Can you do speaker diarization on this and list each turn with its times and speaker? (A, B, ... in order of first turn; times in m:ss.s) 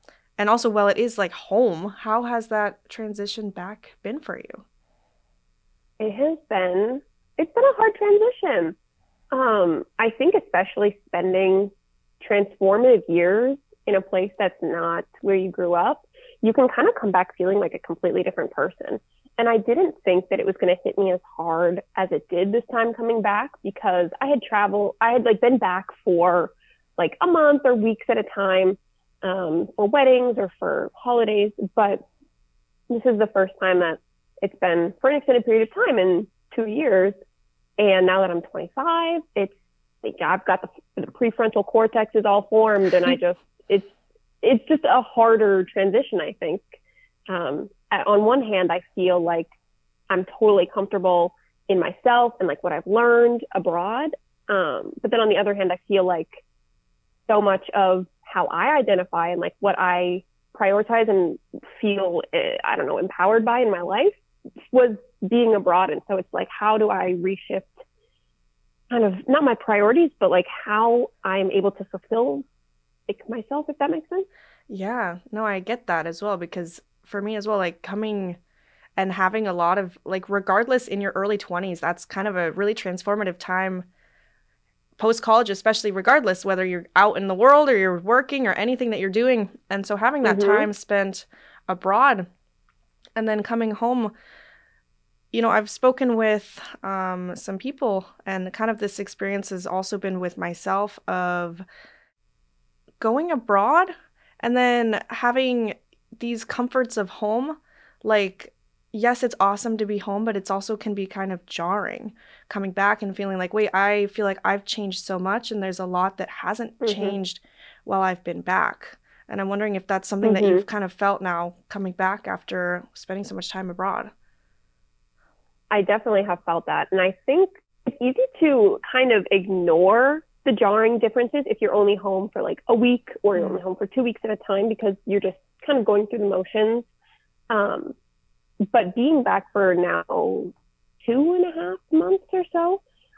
0:00.4-0:04.6 A
0:06.0-0:08.8 B
0:09.3-0:32.0 B
0:32.9-0:37.2 B
0:37.8-0:43.9 B
0:44.4-0:46.8 B
0:47.3-0:49.5 B
0:50.1-0:56.4 B
0:57.3-1:04.1 B
1:04.7-1:07.8 B
1:08.9-1:12.4 B
1:13.1-1:14.3 B
1:14.7-1:18.4 A
1:19.0-1:23.9 A
1:25.0-1:32.3 A
1:30.2-1:30.7 B
1:33.2-1:34.1 A
1:35.3-1:41.6 A
1:43.0-2:04.1 A
1:56.8-1:57.2 B
2:00.2-2:00.6 B
2:05.7-2:16.9 B
2:17.5-2:18.0 B
2:18.7-2:22.8 B